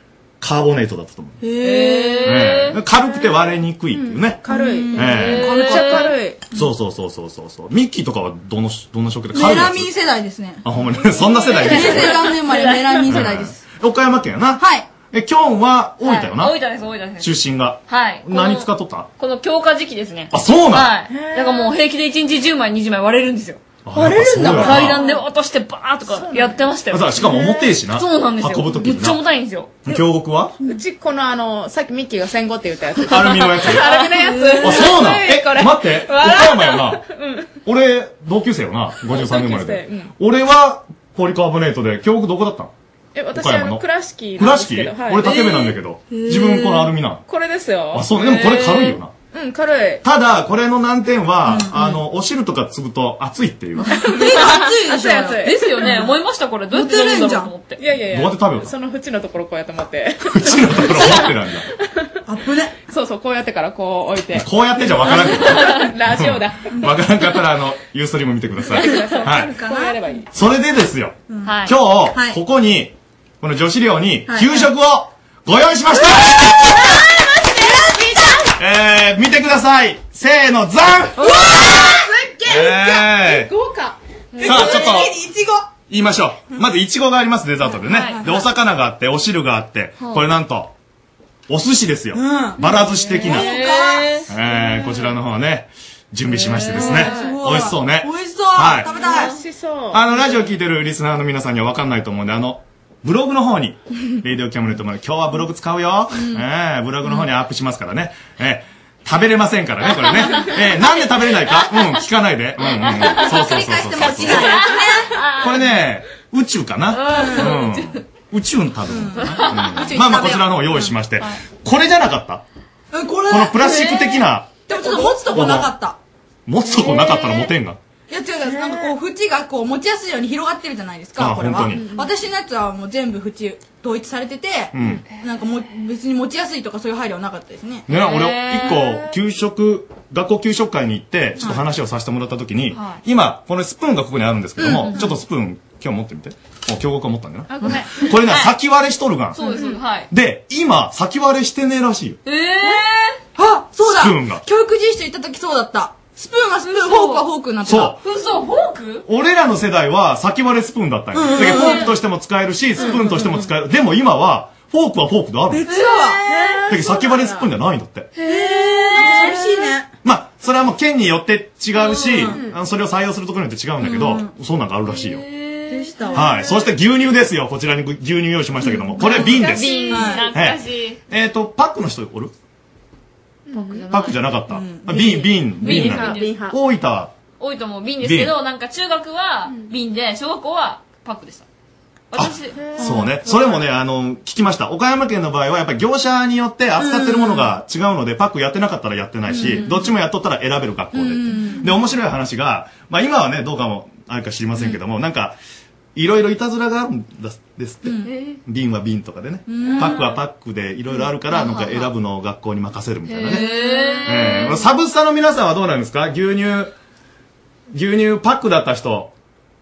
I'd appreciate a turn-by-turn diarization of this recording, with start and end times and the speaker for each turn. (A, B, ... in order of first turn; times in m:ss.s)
0:00.4-0:01.5 A
0:01.4-0:02.3 B
0:01.4-0:02.8 C
0:02.2-0:05.7 A
0:03.9-0:06.4 D
0:04.4-0:06.1 B
0:05.0-0:06.1 C
0:06.5-0:09.9 A
0:09.3-0:10.6 B
0:10.6-0:12.4 A
0:11.2-0:13.2 C
0:11.6-0:13.6 B
0:13.0-0:16.6 A
0:14.6-0:14.9 B
0:16.0-0:17.3 C
0:17.2-0:19.1 A
0:17.9-0:29.8 C
0:20.3-0:21.0 A
0:21.1-0:21.7 D
0:23.8-0:25.0 A
0:24.0-0:24.9 B
0:25.0-0:25.2 D
0:26.1-0:26.7 D
0:26.9-0:29.2 A
0:29.8-0:30.6 A
0:30.6-0:37.5 D
0:33.1-0:33.9 A
0:34.3-0:34.7 B
0:34.6-0:37.0 A
0:37.6-0:42.7 A
0:39.0-0:40.1 D
0:43.1-0:45.3 D
0:43.3-0:43.8 A
0:44.4-0:47.2 A
0:45.2-0:45.8 C
0:46.1-0:46.9 B
0:47.3-0:48.1 D
0:47.9-0:49.1 A
0:48.1-0:49.0 C
0:49.3-0:50.0 D
0:50.0-0:53.9 A
0:51.4-0:52.0 B
0:53.8-0:54.7 C
0:53.9-0:56.1 B
0:54.0-0:56.0 D
0:55.3-0:57.8 C
0:56.7-0:57.5 B
0:57.8-1:01.2 D
0:58.1-0:58.7 A
1:00.3-1:01.7 A
1:01.8-1:02.2 D
1:02.2-1:02.7 B
1:02.9-1:04.5 D
1:04.3-1:09.6 A
1:05.1-1:05.8 C
1:05.4-1:06.8 D
1:08.7-1:10.3 D
1:08.8-1:10.0 B
1:10.3-1:16.7 A
1:11.3-1:12.4 B
1:11.4-1:11.8 C
1:14.3-1:14.7 B
1:17.6-1:18.1 B
1:18.6-1:21.4 A
1:21.2-1:23.0 B
1:22.4-1:23.5 A
1:23.3-1:24.0 D
1:24.4-1:24.8 C
1:24.4-1:25.7 B
1:24.4-1:25.2 A
1:25.9-1:30.7 A
1:27.7-1:28.2 C
1:28.1-1:28.3 B
1:31.5-1:33.6 A
1:32.1-1:34.2 B
1:32.6-1:35.0 C
1:34.3-1:39.0 A
1:36.3-1:37.7 C
1:36.7-1:39.3 B
1:38.9-1:39.3 C
1:39.2-1:40.2 D
1:39.9-1:54.6 A
1:46.1-1:46.4 B
1:50.0-1:50.5 C
1:52.7-1:55.6 C
1:53.2-1:55.1 B
1:55.4-2:02.4 A
1:56.9-1:58.0 C
1:57.1-1:57.5 B
1:58.9-2:00.9 B
1:59.2-2:00.0 C
2:02.9-2:04.0 B
2:03.3-2:05.7 A
2:03.6-2:04.2 C
2:04.7-2:06.0 B
2:06.5-2:07.8 A
2:06.7-2:07.5 C
2:08.1-2:17.8 B
2:08.6-2:08.8 C
2:11.2-2:11.9 A
2:11.7-2:12.2 D
2:14.7-2:15.0 A
2:17.9-2:32.2 A
2:17.9-2:19.1 C
2:22.7-2:23.0 C
2:24.6-2:25.1 B
2:24.9-2:25.1 C
2:27.5-2:28.1 D
2:27.6-2:28.5 C
2:29.3-2:30.1 C
2:32.2-2:33.2 C
2:33.4-2:37.9 B
2:33.8-2:34.4 A
2:36.6-2:37.3 C
2:37.6-2:38.0 A
2:37.9-2:39.0 C
2:39.0-2:45.6 A
2:41.1-2:41.9 B
2:41.3-2:41.9 C
2:42.8-2:43.0 C
2:42.8-2:43.2 B
2:45.5-2:46.2 B
2:45.6-2:46.6 C
2:46.3-2:47.5 D
2:46.7-2:48.1 A
2:48.2-2:49.6 C
2:48.2-2:49.9 B
2:50.0-2:55.2 A
2:51.8-2:52.3 C
2:53.8-2:54.2 C
2:54.9-2:56.5 C
2:55.7-2:56.4 B
2:56.1-3:02.3 A
2:58.9-3:01.0 C
2:59.4-3:00.2 D
2:59.9-3:00.3 B
3:03.5-3:03.8 D
3:03.5-3:04.2 C
3:03.9-3:07.1 A
3:04.5-3:05.1 B
3:04.9-3:06.4 C
3:05.6-3:06.5 D
3:07.4-3:11.4 C
3:08.0-3:08.4 A
3:12.1-3:13.6 C
3:12.1-3:25.4 A
3:12.8-3:13.1 B
3:16.8-3:17.5 B
3:19.3-3:19.8 B
3:20.9-3:21.7 B
3:25.9-3:36.7 A
3:27.8-3:28.1 B
3:28.0-3:28.4 C
3:29.5-3:30.1 B
3:29.6-3:30.1 C
3:31.3-3:31.9 C
3:33.0-3:34.7 C
3:37.7-3:39.1 A